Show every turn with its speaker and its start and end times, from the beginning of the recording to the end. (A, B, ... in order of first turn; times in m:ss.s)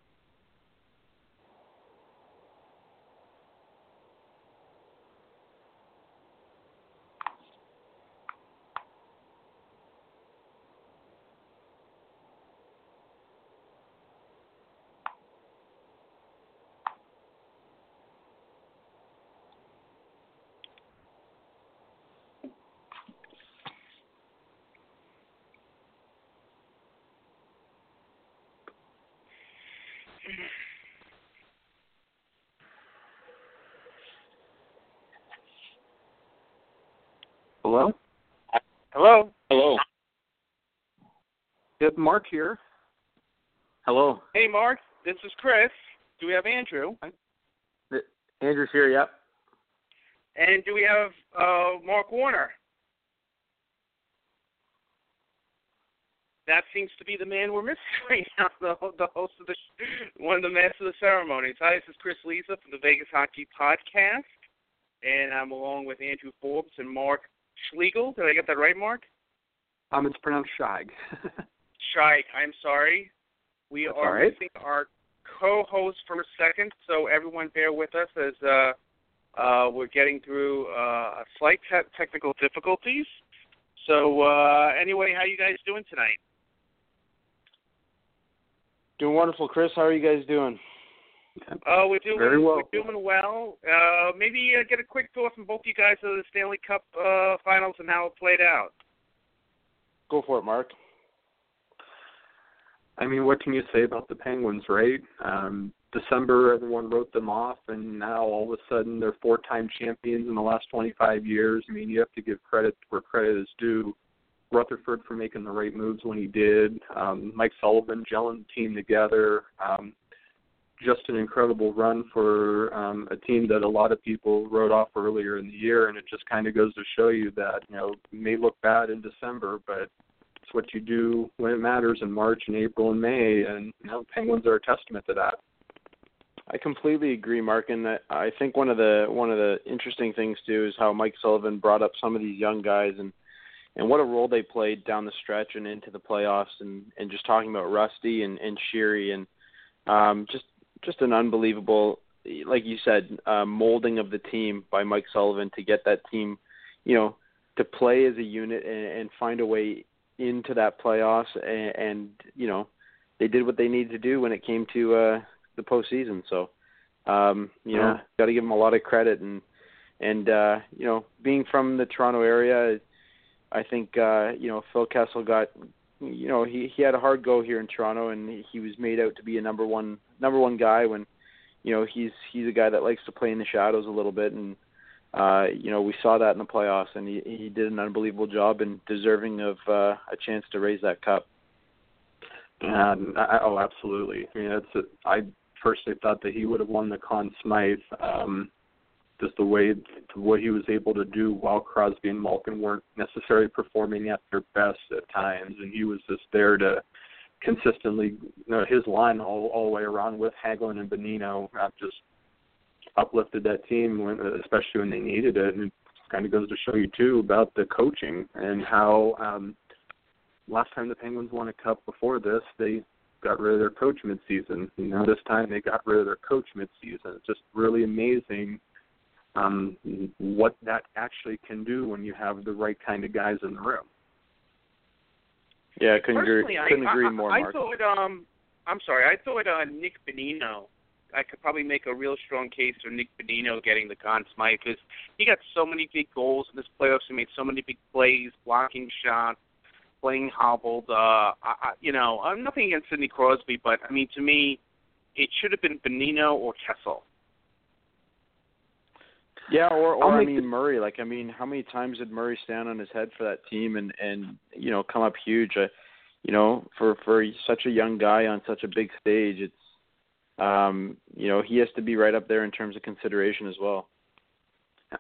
0:38.9-0:39.3 A
0:39.5-0:39.8 B
0:41.8-0:42.6 C
0:43.9-0:44.2 B
0:44.3-0:47.0 A
0:47.9-0:49.1 B
0:50.4-0:52.6 A
0:56.5-1:04.3 A
1:05.0-1:09.0 A
1:09.9-1:10.9 C
1:11.8-1:13.1 A
1:13.7-1:18.8 A
1:13.9-1:14.3 C
1:19.4-1:23.2 A
1:23.8-1:26.2 A
1:29.0-1:30.6 B
1:31.6-1:38.7 A
1:32.1-1:32.7 C
1:40.1-1:40.8 B
1:43.0-1:54.0 C
1:54.5-1:59.9 C
2:00.8-2:09.9 C
2:10.5-2:15.4 C
2:16.5-2:23.1 B
2:23.8-2:29.3 B
2:29.9-2:42.7 B
2:43.2-2:46.5 B
2:47.1-2:49.4 B
2:47.7-2:48.0 C
2:50.0-2:52.8 B
2:53.5-3:01.1 B
3:01.6-3:04.6 B
3:05.1-3:11.3 B
3:12.6-3:18.5 C
3:19.2-3:26.8 C
3:27.4-3:32.0 C
3:33.0-3:39.6 C
3:40.5-3:48.6 C
3:49.4-3:53.9 C
3:55.8-3:57.6 B
3:56.2-4:09.4 A
4:10.0-4:14.6 A
4:15.2-4:17.0 A
4:19.5-4:25.7 B
4:26.2-4:29.5 B
4:30.4-4:33.9 B